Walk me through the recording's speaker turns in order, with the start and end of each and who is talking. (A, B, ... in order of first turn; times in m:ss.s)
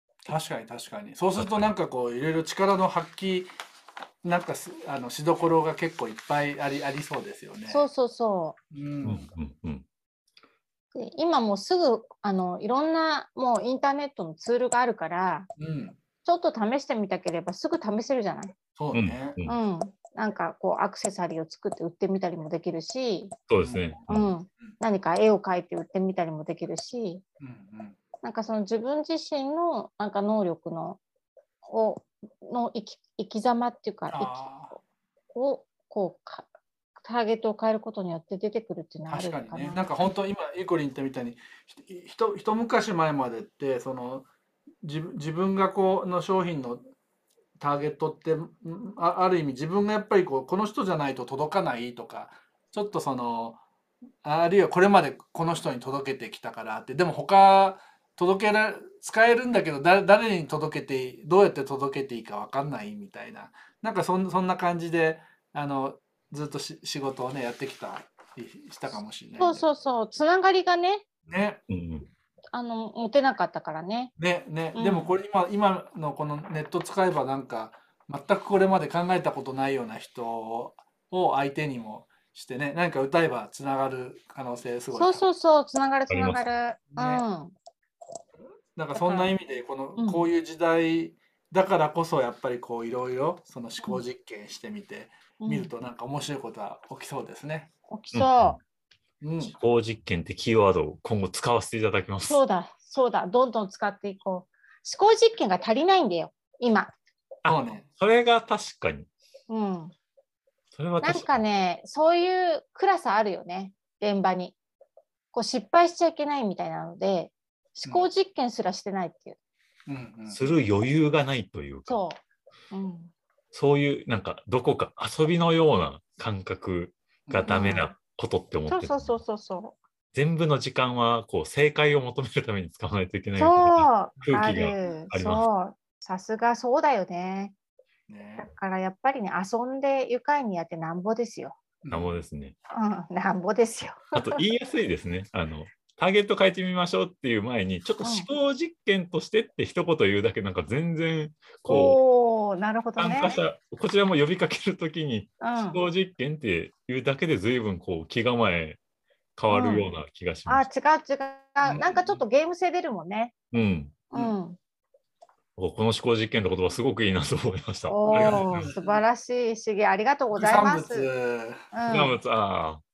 0:00.3-0:03.5 A
0:01.4-0:01.7 B
0:04.2-0:07.9 A
0:07.7-0:08.6 C
0:08.7-0:09.3 A
0:09.0-0:09.8 B
0:10.9-0:15.5 C
0:15.6-0:16.0 A
0:16.2-0:18.6 C
0:18.8-0:19.4 A
0:18.9-0:19.6 B
0:19.5-0:23.4 C
0:23.5-0:24.3 B
0:23.6-0:24.0 A
0:24.1-0:27.2 C
0:27.4-0:28.0 A
0:28.2-0:31.0 C
0:31.6-0:34.8 C
0:34.1-0:34.8 A
0:35.3-0:36.5 C
0:37.0-0:39.9 C
0:39.1-0:44.3 A
0:44.8-0:46.9 A
0:47.6-0:53.6 A
0:54.2-1:09.7 A
1:09.4-1:11.0 C
1:11.3-1:11.6 A
1:11.7-1:12.1 B
1:12.5-1:14.1 C
1:14.2-1:25.2 A
1:14.8-1:15.1 C
1:24.9-1:27.5 C
1:26.1-1:26.4 B
1:26.9-1:27.2 A
1:28.8-1:37.7 A
1:29.0-1:29.3 C
1:30.0-1:30.3 C
1:35.4-1:35.7 C
1:37.9-1:38.6 C
1:38.1-1:38.6 B
1:39.2-1:39.6 A
1:39.4-1:42.4 B
1:42.2-1:46.9 C
1:47.4-1:49.1 B
1:47.5-1:47.9 A
1:49.5-1:49.9 C
1:50.7-1:51.3 B
1:51.0-1:54.6 C
1:55.3-1:59.4 C
1:57.8-1:58.1 A
1:59.9-2:00.4 A
2:00.3-2:02.0 B
2:01.9-2:02.2 C
2:02.7-2:03.1 C
2:03.5-2:09.2 B
2:07.3-2:07.5 A
2:07.5-2:07.9 C
2:08.7-2:09.8 C
2:10.1-2:15.4 B
2:13.4-2:17.5 C
2:18.1-2:18.5 A
2:18.4-2:21.6 C
2:21.8-2:22.2 A
2:21.9-2:22.6 B
2:22.7-2:24.4 C
2:24.1-2:32.0 B
2:28.0-2:28.3 C
2:31.7-2:33.4 C
2:33.0-2:38.8 B
2:35.4-2:35.8 C
2:39.4-2:40.7 B
2:39.5-2:39.9 C
2:40.5-2:43.3 C
2:41.6-2:42.2 A
2:43.5-2:44.0 B
2:44.1-2:44.6 C
2:45.6-2:48.7 B
2:47.9-2:51.1 C
2:48.1-2:49.0 A
2:50.3-2:51.6 A
2:51.7-2:52.2 C
2:51.9-2:52.8 B